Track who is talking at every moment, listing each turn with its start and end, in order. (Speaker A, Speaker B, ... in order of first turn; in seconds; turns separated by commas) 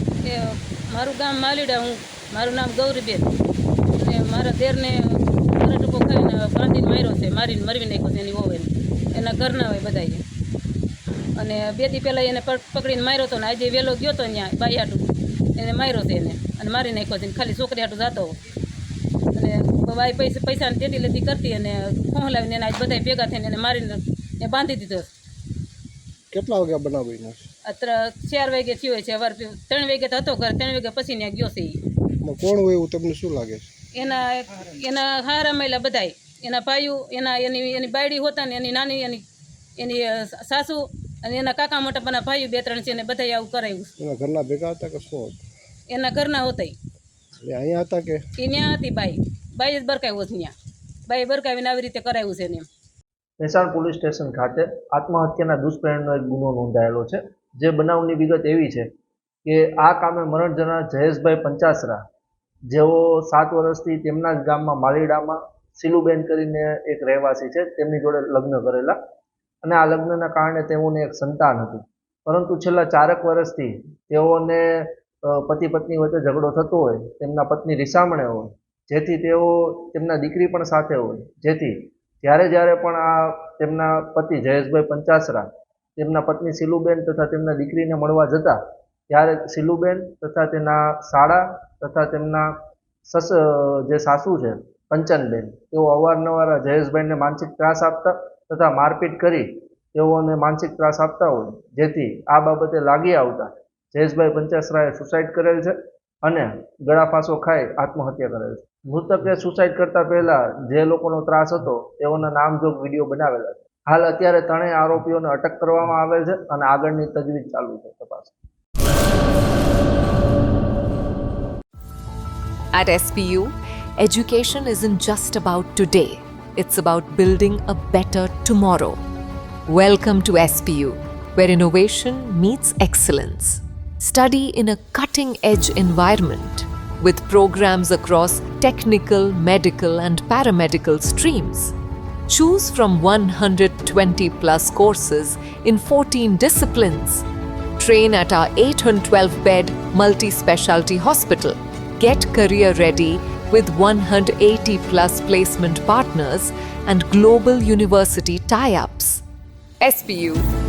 Speaker A: 0.2-3.3, Speaker A: 4.0-10.2, Speaker A: 11.3-15.0, Speaker A: 15.6-18.4, Speaker A: 19.3-25.1, Speaker B: 26.3-27.4, Speaker A: 27.7-31.8, Speaker B: 32.2-33.7, Speaker A: 33.9-39.2, Speaker A: 39.8-43.9, Speaker B: 44.0-45.4, Speaker A: 45.9-46.8, Speaker B: 47.4-48.2, Speaker A: 48.4-50.5, Speaker A: 51.1-52.7, Speaker C: 53.4-58.9, Speaker C: 59.4-62.0, Speaker C: 62.7-69.0, Speaker C: 69.6-85.5, Speaker C: 86.0-88.6, Speaker C: 89.1-92.5, Speaker C: 93.1-118.3, Speaker D: 122.7-129.0, Speaker D: 129.7-141.7, Speaker D: 142.3-147.2, Speaker D: 147.8-159.2, Speaker D: 159.8-160.5